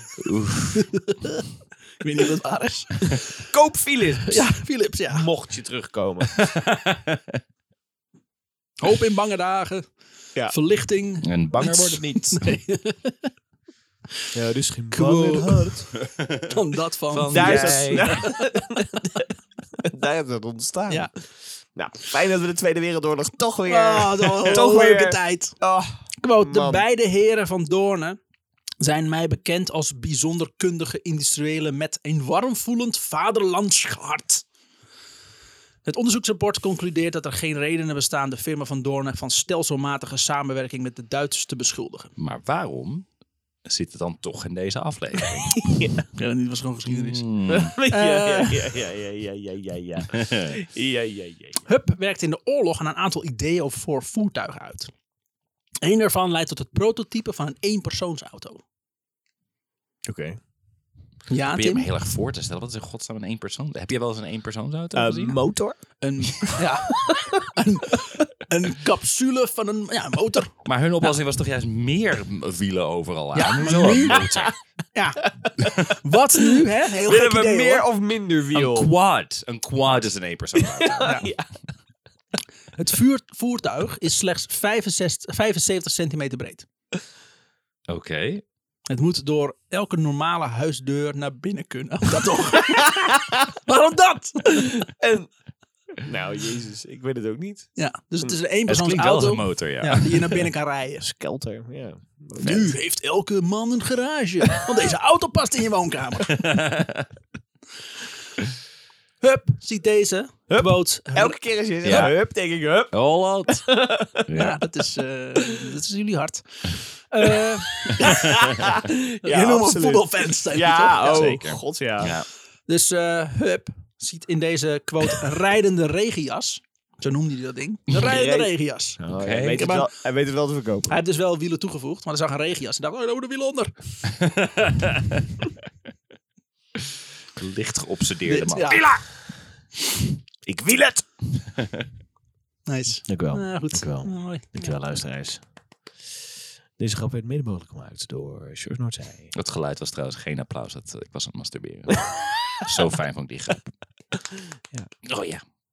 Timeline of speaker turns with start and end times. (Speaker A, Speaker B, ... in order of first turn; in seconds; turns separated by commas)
Speaker A: 0.2-0.9, Speaker B: 0.8-1.4, Speaker B: 2.0-3.4, Speaker C: 3.5-4.5, Speaker B: 4.3-5.3, Speaker C: 5.1-6.4, Speaker A: 6.4-7.4, Speaker B: 8.8-9.9, Speaker B: 10.5-13.3, Speaker A: 11.2-12.5, Speaker C: 14.3-15.9, Speaker B: 14.9-15.9, Speaker A: 16.0-16.5, Speaker B: 16.5-19.2, Speaker A: 17.1-18.3, Speaker C: 17.3-19.2, Speaker C: 19.8-26.9, Speaker B: 23.7-25.6, Speaker B: 26.2-28.2, Speaker B: 28.8-34.5, Speaker B: 35.9-42.1, Speaker A: 42.2-43.1, Speaker A: 43.6-45.6, Speaker C: 45.6-46.0, Speaker B: 46.1-47.3, Speaker A: 46.9-47.8, Speaker C: 47.5-51.6, Speaker B: 47.9-48.7, Speaker A: 50.0-50.5, Speaker B: 51.7-54.9, Speaker B: 55.8-58.6, Speaker C: 60.1-60.4, Speaker B: 61.3-61.9, Speaker A: 61.5-65.4, Speaker C: 64.9-65.8, Speaker B: 66.0-70.5, Speaker C: 66.4-67.4, Speaker A: 70.7-74.5, Speaker B: 73.3-77.9, Speaker C: 76.9-78.9, Speaker A: 78.5-81.3, Speaker C: 80.6-81.5, Speaker B: 82.8-86.7, Speaker A: 87.9-88.4, Speaker B: 88.9-94.9, Speaker C: 94.9-95.3, Speaker C: 96.0-98.3, Speaker B: 97.8-101.0, Speaker A: 98.7-100.5, Speaker C: 101.0-102.8, Speaker B: 102.4-106.4, Speaker A: 106.3-107.1, Speaker B: 109.2-111.4, Speaker C: 110.5-114.3, Speaker A: 111.8-112.2, Speaker A: 112.9-113.7, Speaker A: 114.3-114.6, Speaker B: 114.3-118.7, Speaker C: 117.9-122.2, Speaker A: 118.1-118.4, Speaker B: 119.2-121.4, Speaker A: 121.0-122.3, Speaker B: 122.7-129.0, Speaker C: 128.0-131.0, Speaker A: 129.1-129.7, Speaker B: 129.6-129.9, Speaker B: 130.9-133.7, Speaker A: 134.2-135.3, Speaker A: 137.4-138.9, Speaker B: 138.3-139.0, Speaker C: 140.5-141.0, Speaker A: 141.5-141.9, Speaker B: 142.7-144.8, Speaker C: 143.1-145.4, Speaker C: 146.8-149.3, Speaker A: 149.3-153.7, Speaker A: 155.1-155.4